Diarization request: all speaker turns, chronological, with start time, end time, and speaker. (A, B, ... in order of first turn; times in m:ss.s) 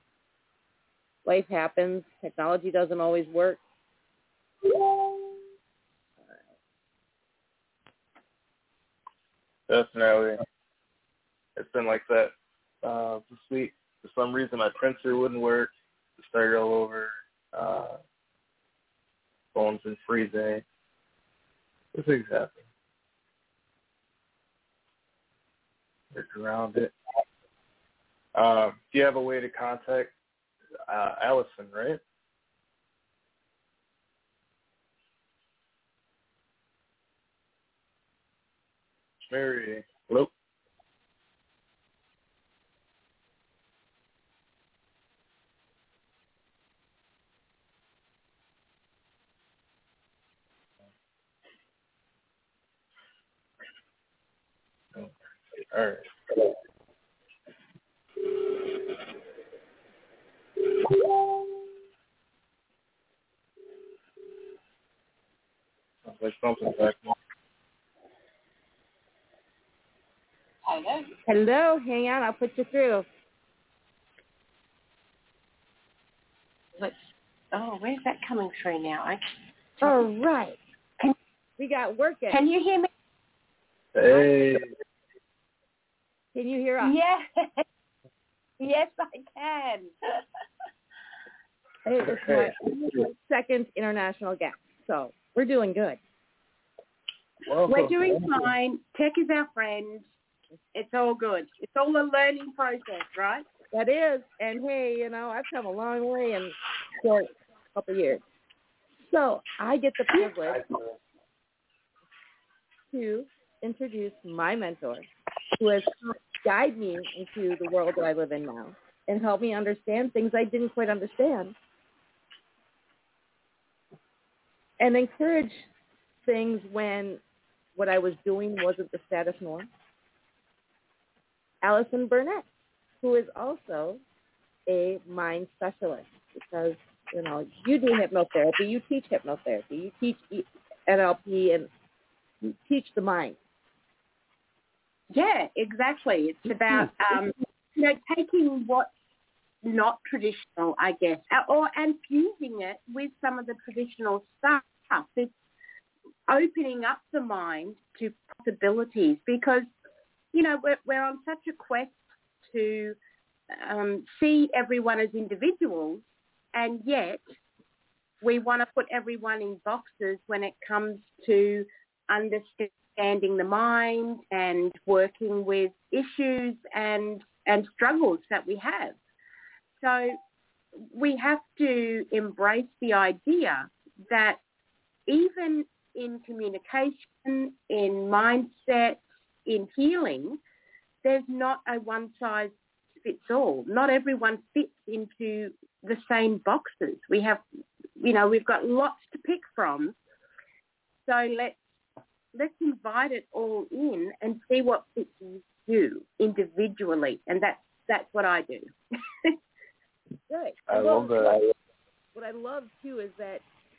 0:01.2-0:03.6 A
0:09.7-0:10.4 B
0:11.6-0:18.0 B
0:19.5-0:20.6 B
0:21.9-0:22.6 B
0:26.1-0:26.9 B
0:28.3-0:30.1 B
0:30.9-0:32.0 B
0:39.2-0:40.3 B
0:54.9-0:56.5 B
1:06.0-1:07.1 B
1:10.6-1:11.0 C
1:11.2-1:13.1 A
1:17.5-1:19.2 C
1:19.8-1:20.6 A
1:21.6-1:22.4 A
1:22.3-1:22.9 C
1:23.9-1:24.7 B
1:26.3-1:26.9 A
1:26.8-1:27.6 C
1:28.6-1:29.9 C
1:31.8-1:36.0 A
1:32.2-1:32.5 B
1:37.4-1:38.5 B
1:37.7-1:40.0 C
1:40.7-1:43.4 C
1:43.7-1:48.2 A
1:49.0-1:50.6 A
1:52.9-1:55.1 A
1:55.6-2:01.5 A
2:04.8-2:05.7 A
2:06.2-2:07.2 A
2:07.8-2:09.7 A
2:11.6-2:12.5 A
2:13.0-2:14.0 A
2:14.7-2:21.7 A
2:22.4-2:23.4 A
2:25.1-2:28.9 C
2:29.6-2:35.3 C
2:36.3-2:39.7 C
2:40.3-2:43.0 C
2:43.5-2:46.0 C
2:46.5-2:47.2 C
2:48.2-2:59.0 C
2:59.8-3:00.2 C
3:00.9-3:04.4 C
3:05.1-3:10.4 C
3:11.0-3:17.4 C
3:18.0-3:19.9 C
3:21.1-3:21.6 C
3:22.3-3:28.7 C
3:30.3-3:31.3 A
3:30.7-3:31.5 B
3:32.1-3:33.4 A